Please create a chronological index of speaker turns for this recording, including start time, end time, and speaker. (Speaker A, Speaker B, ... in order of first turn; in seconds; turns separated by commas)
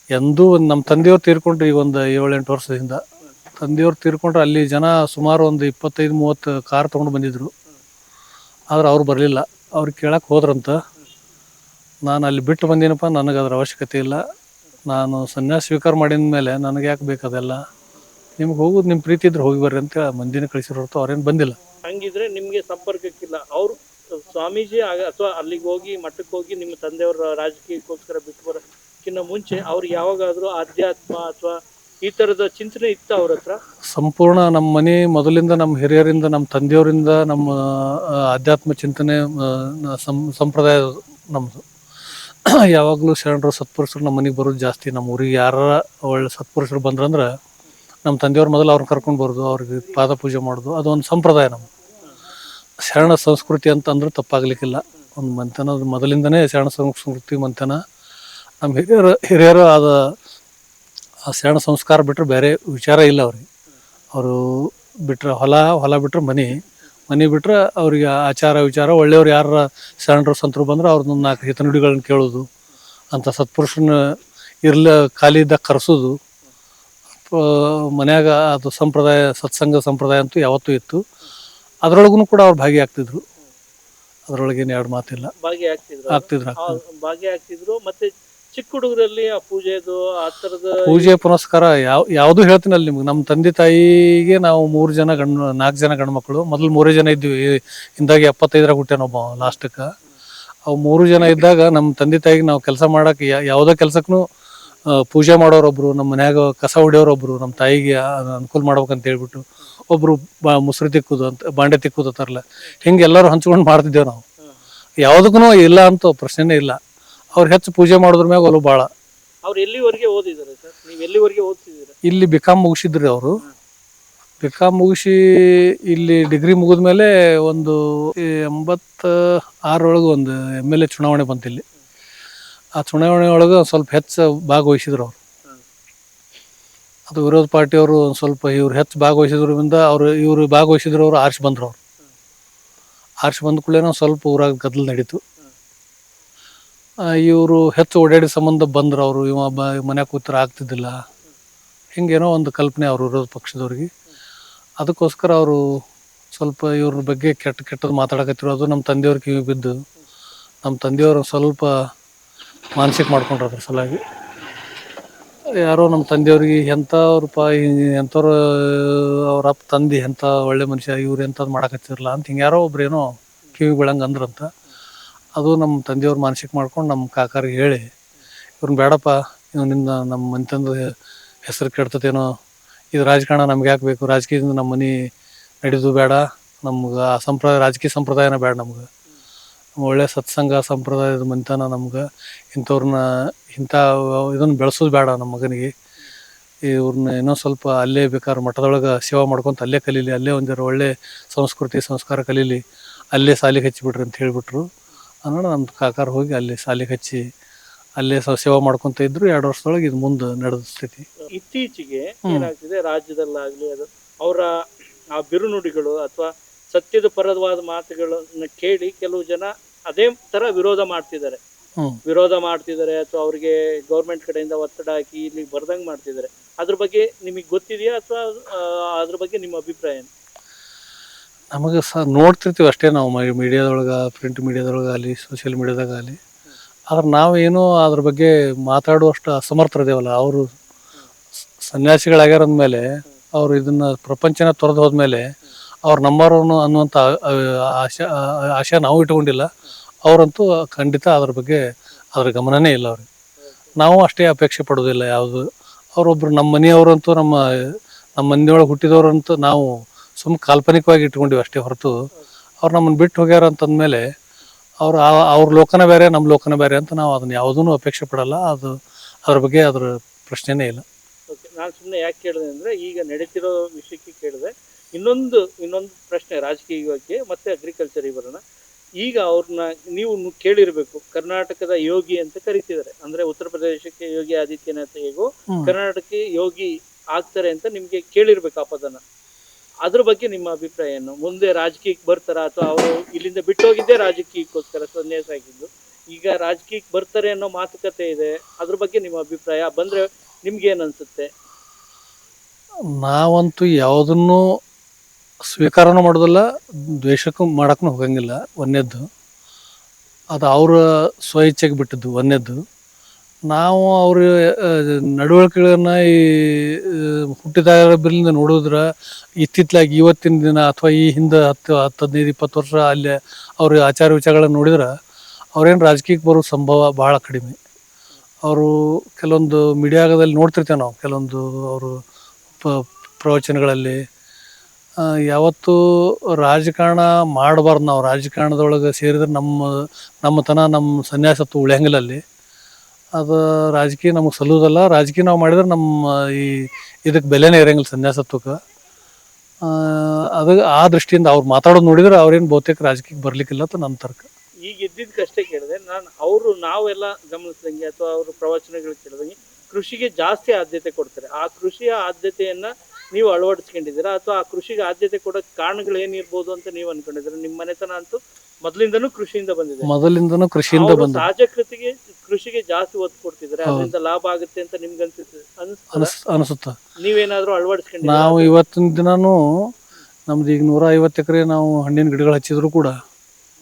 Speaker A: 0.2-3.0, Speaker A: 3.6-7.5, Speaker A: 8.7-10.8, Speaker A: 12.1-14.2, Speaker A: 14.9-17.6, Speaker A: 18.4-21.6, Speaker B: 21.9-33.6, Speaker A: 33.9-41.6, Speaker A: 42.5-47.3, Speaker A: 48.0-51.7, Speaker A: 52.8-57.8, Speaker A: 58.6-60.1, Speaker A: 61.3-63.5, Speaker A: 64.1-72.5, Speaker A: 73.1-74.1, Speaker A: 74.6-76.2, Speaker A: 77.3-81.0, Speaker A: 81.8-83.2, Speaker A: 84.3-85.3, Speaker B: 85.4-91.2, Speaker A: 86.1-86.8, Speaker A: 90.9-99.9, Speaker A: 100.7-104.2, Speaker A: 104.9-114.2, Speaker A: 115.0-116.8, Speaker A: 117.3-118.9, Speaker B: 119.4-122.0, Speaker A: 122.0-123.4, Speaker A: 124.4-131.6, Speaker A: 132.8-135.2, Speaker A: 137.1-141.8, Speaker A: 143.2-145.2, Speaker A: 147.2-151.0, Speaker A: 152.0-153.9, Speaker A: 154.8-155.6, Speaker A: 156.3-159.8, Speaker A: 160.6-161.7, Speaker A: 162.8-164.0, Speaker A: 165.7-174.5, Speaker A: 175.4-177.9, Speaker A: 178.6-180.8, Speaker A: 181.5-182.3, Speaker A: 182.9-185.0, Speaker A: 185.6-188.9, Speaker A: 189.8-195.7, Speaker A: 196.7-204.7, Speaker A: 205.2-207.2, Speaker A: 208.0-211.1, Speaker B: 211.3-221.4, Speaker B: 222.1-230.1, Speaker A: 231.5-236.2, Speaker A: 236.9-240.5, Speaker A: 241.6-245.3, Speaker A: 245.9-249.5, Speaker A: 250.1-251.6, Speaker A: 252.2-253.1, Speaker A: 253.8-255.4, Speaker A: 255.9-261.9, Speaker A: 262.6-264.0, Speaker A: 264.8-268.7, Speaker A: 269.3-270.8, Speaker B: 271.3-278.4, Speaker B: 279.0-289.0, Speaker B: 289.8-301.3, Speaker A: 303.0-304.5, Speaker A: 305.5-309.1, Speaker A: 310.3-312.6, Speaker A: 313.5-318.8, Speaker A: 319.4-324.9, Speaker A: 325.6-327.6, Speaker A: 328.5-332.0, Speaker A: 332.6-334.0, Speaker A: 335.1-342.2, Speaker A: 343.2-348.6, Speaker A: 349.6-354.3, Speaker B: 354.7-369.9, Speaker A: 369.8-371.3, Speaker B: 370.7-376.1, Speaker A: 373.7-373.9, Speaker A: 375.9-376.8, Speaker B: 377.0-378.6, Speaker A: 378.0-379.7, Speaker A: 380.3-382.9